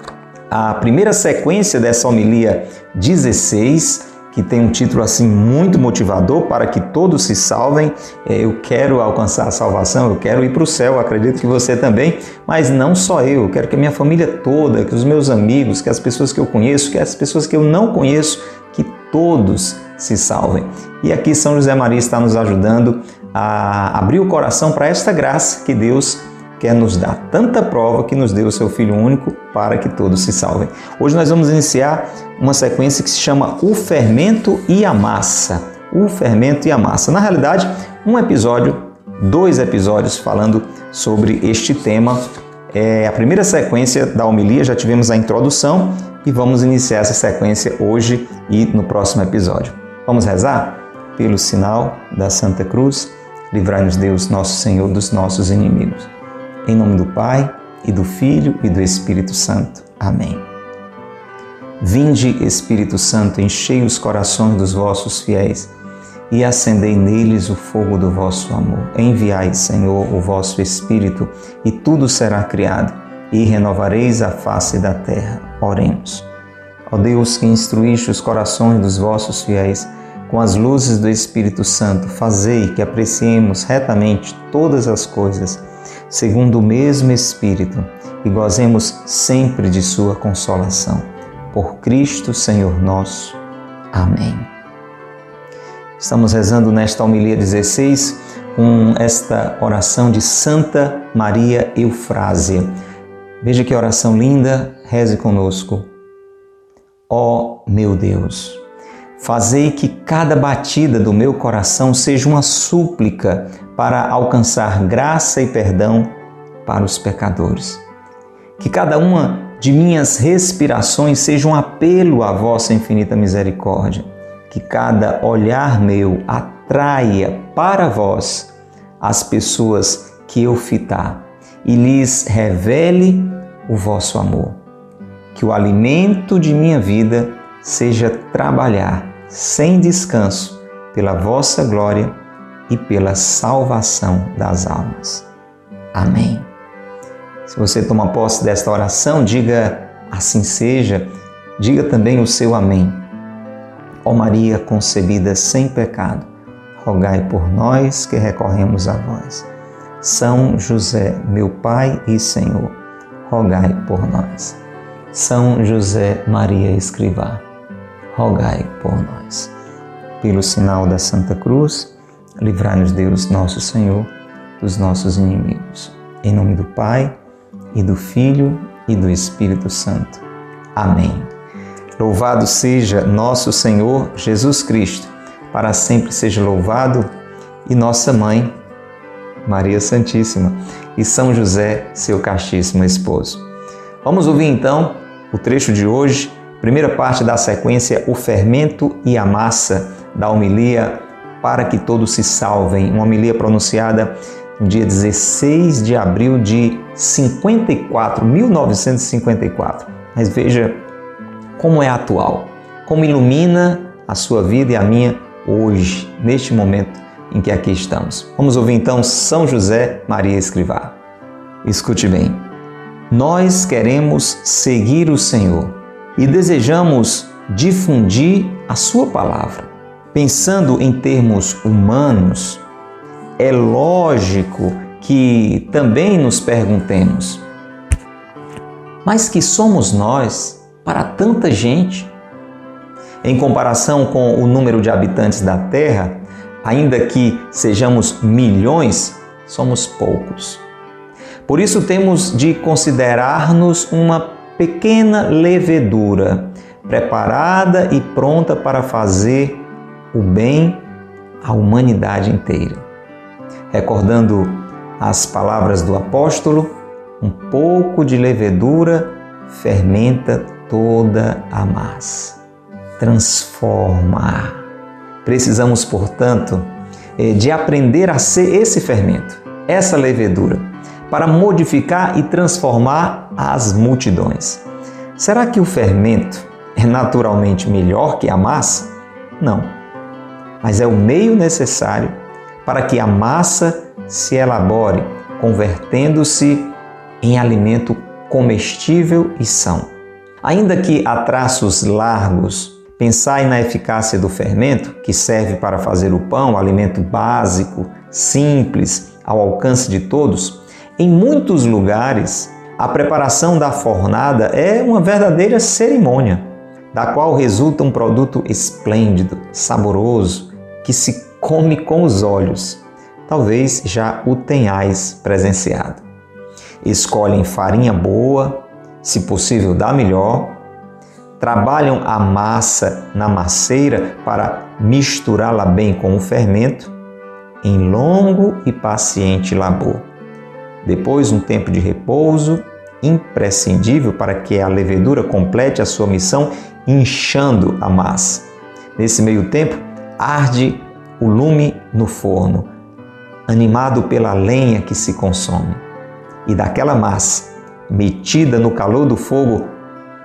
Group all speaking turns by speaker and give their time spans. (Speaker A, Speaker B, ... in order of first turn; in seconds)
Speaker A: 0.5-56.1, 56.6-60.5, 61.8-65.7, 66.3-76.3, 76.9-93.4, 93.9-94.5, 96.0-102.7, 103.4-105.9, 107.1-108.6, 109.2-116.1, 116.7-117.8, 118.6-134.6, 135.3-142.2, 142.7-145.3, 145.9-146.5, 147.5-153.1, 154.1-159.5, 160.0-164.6, 165.1-167.4, 168.1-169.5, 170.2-177.1, 177.7-180.2, 180.8-181.3, 182.0-187.1, 187.7-188.5, 189.4-193.5, 194.0-210.8, 211.6-221.0, 221.6-222.5, 223.1-232.6, 233.4-237.4, 239.1-242.2, 243.2-250.7, 251.5-260.9, 261.4-262.8, 263.7-272.4, 273.0-274.6, 275.2-284.6, 285.2-289.8, 290.6-299.9, 300.4-326.0, 326.8-330.6, 331.4-336.9, 337.6-340.1, 340.8-352.7, 353.5-355.8, 356.5-359.7